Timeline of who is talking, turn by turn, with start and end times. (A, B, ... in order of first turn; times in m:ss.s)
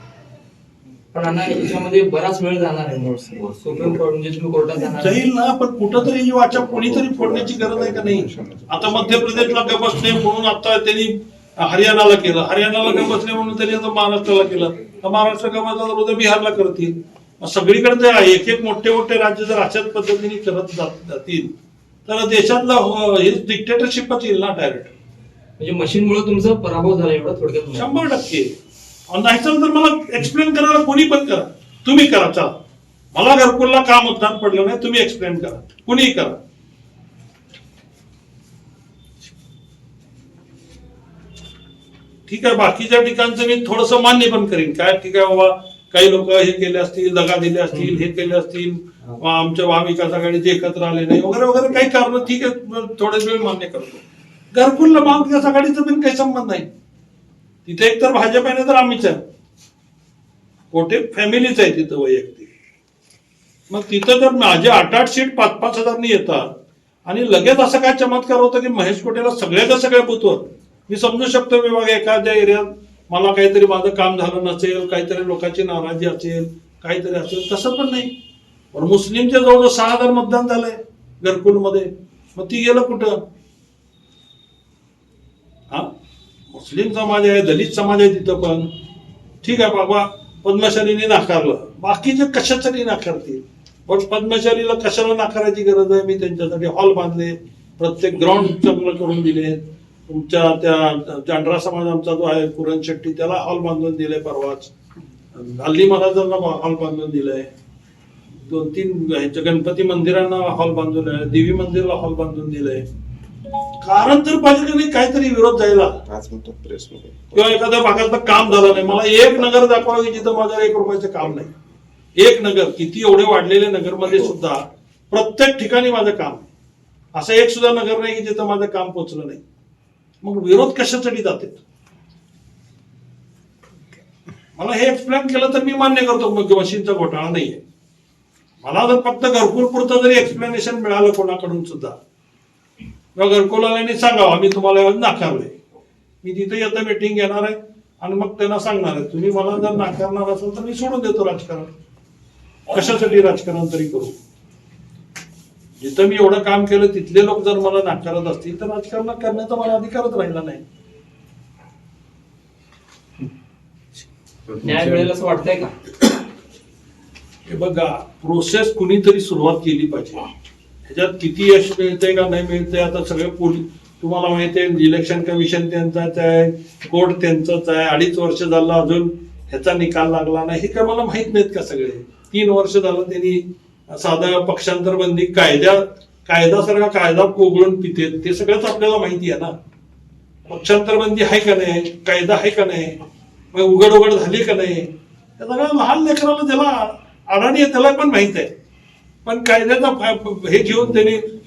0:01.1-0:05.2 A
0:04.8-0:21.5 B
0:06.5-0:10.1 C
0:22.1-0:24.9 B
0:25.6-0:28.0 A
0:27.8-0:28.5 B
0:29.1-0:32.6 B
0:33.1-0:36.4 B
0:42.3-0:56.7 B
0:57.6-0:59.2 B
1:00.7-1:02.5 B
1:03.7-1:06.5 B
1:07.0-1:18.1 B
1:18.7-1:23.2 B
1:26.5-1:28.7 B
1:29.4-1:44.7 B
1:45.3-1:47.5 B
1:48.4-1:52.8 B
1:53.8-1:56.0 B
1:56.0-2:01.4 C
1:57.3-2:01.5 B
2:02.2-2:06.5 B
2:07.1-2:09.4 B
2:10.2-2:11.6 B
2:14.6-2:17.6 B
2:18.6-2:22.0 B
2:23.2-2:25.5 B
2:26.2-2:31.7 B
2:32.7-2:34.2 B
2:35.8-2:40.6 B
2:44.6-2:45.7 A
2:47.4-2:50.3 B
2:50.8-3:09.5 B
3:10.5-3:13.0 B
3:13.5-3:18.5 B
3:19.2-3:21.3 B